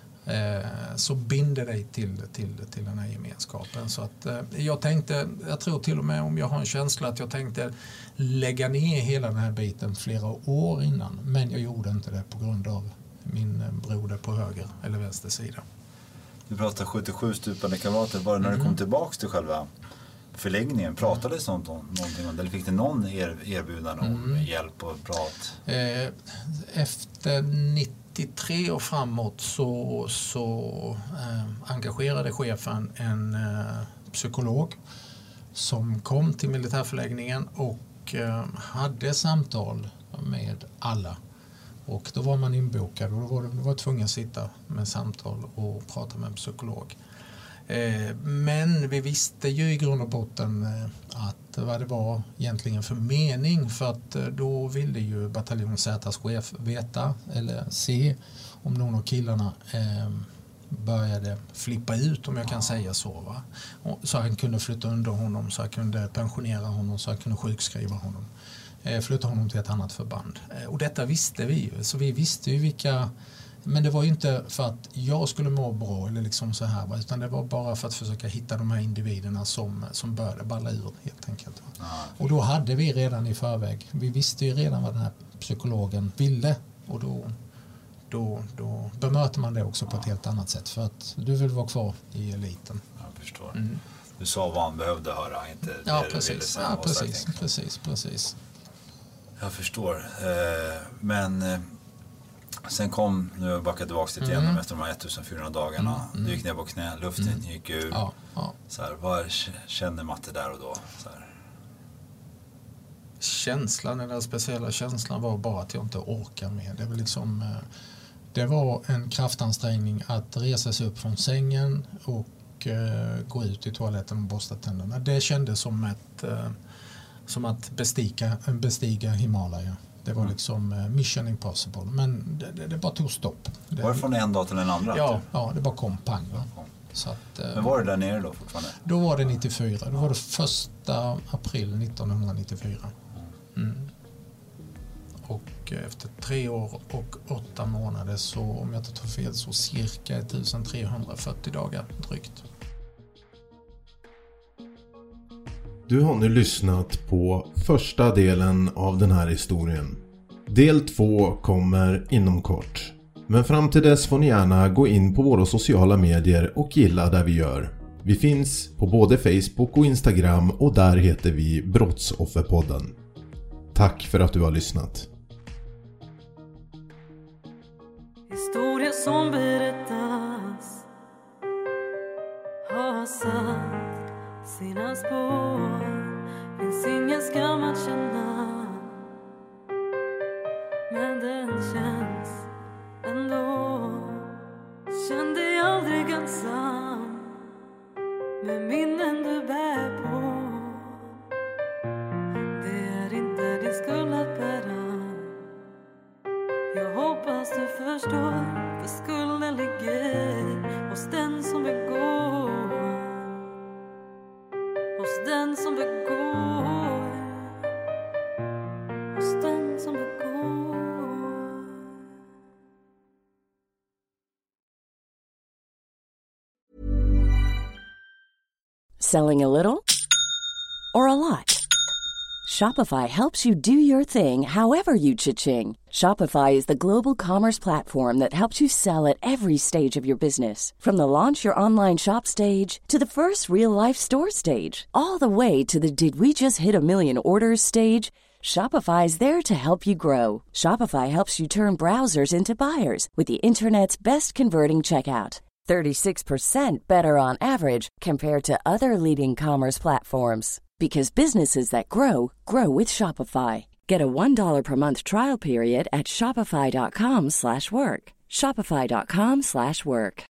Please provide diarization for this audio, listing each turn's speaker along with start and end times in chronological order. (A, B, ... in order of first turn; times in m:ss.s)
0:00.3-0:15.6 A
0:16.5-0:19.7 B
0:18.4-0:18.8 A
0:20.3-0:25.6 B
0:24.0-0:24.5 A
0:25.7-0:34.8 A
0:35.6-0:41.2 A
0:41.9-0:47.0 A
0:47.7-1:08.3 A
1:08.8-1:13.1 A
1:13.6-1:27.3 A
1:21.8-1:22.2 B
1:28.1-1:32.8 A
1:33.0-1:33.6 B
1:33.5-1:33.8 A
1:34.2-1:37.5 B
1:35.8-1:38.4 A
1:39.4-1:41.7 B
1:42.6-1:48.0 B
1:44.2-1:44.6 A
1:45.8-1:46.4 A
1:47.2-1:48.6 A
1:48.7-1:51.3 B
1:53.2-1:57.6 A
1:58.3-2:06.6 A
2:07.3-2:14.0 A
2:13.8-2:15.3 B
2:14.9-2:17.8 A
2:17.5-2:18.8 B
2:18.8-2:22.9 A
2:23.6-2:23.9 A
2:25.3-2:32.4 A
2:35.9-2:53.0 C
2:53.7-2:55.1 C
2:58.3-3:00.8 D
3:02.6-3:08.9 D
3:10.9-3:12.5 D
3:13.0-3:14.3 D
3:14.9-3:17.3 D
3:18.4-3:20.9 D
3:22.5-3:25.3 D
3:26.7-3:33.4 D
3:35.0-3:37.5 D
3:39.1-3:41.6 D
3:49.0-3:49.9 E
3:50.9-3:51.6 E
3:52.4-4:30.3 E